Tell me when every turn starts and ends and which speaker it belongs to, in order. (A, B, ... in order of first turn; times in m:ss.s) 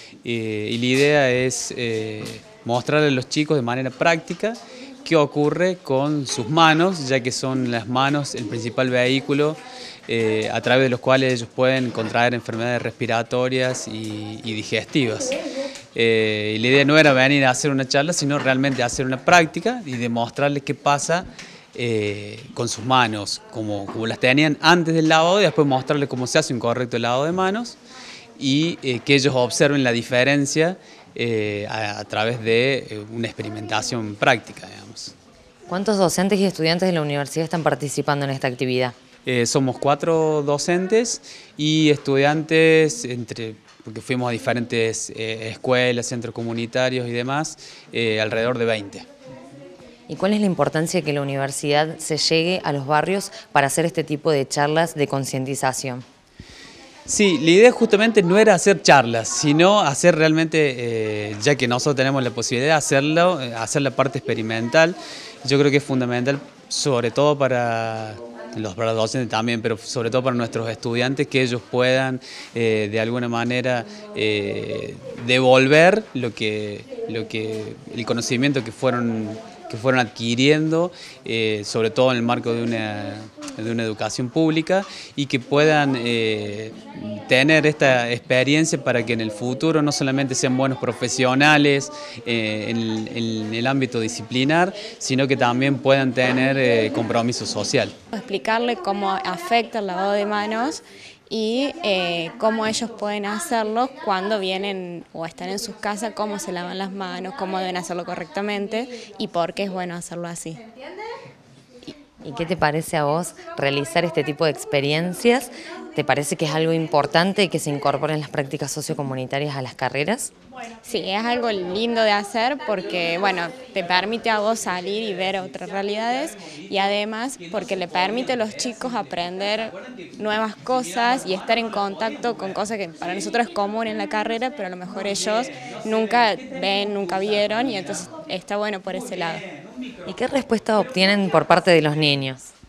0:00.2-0:15.4 A
0:15.9-0:27.8 A
0:28.4-0:35.1 A
0:35.7-0:38.9 B
0:39.2-0:49.1 A
0:50.1-0:56.0 B
0:57.0-1:37.9 A
1:38.1-1:50.6 C
1:52.2-2:00.3 B
2:00.8-2:19.4 C
2:20.0-2:22.5 B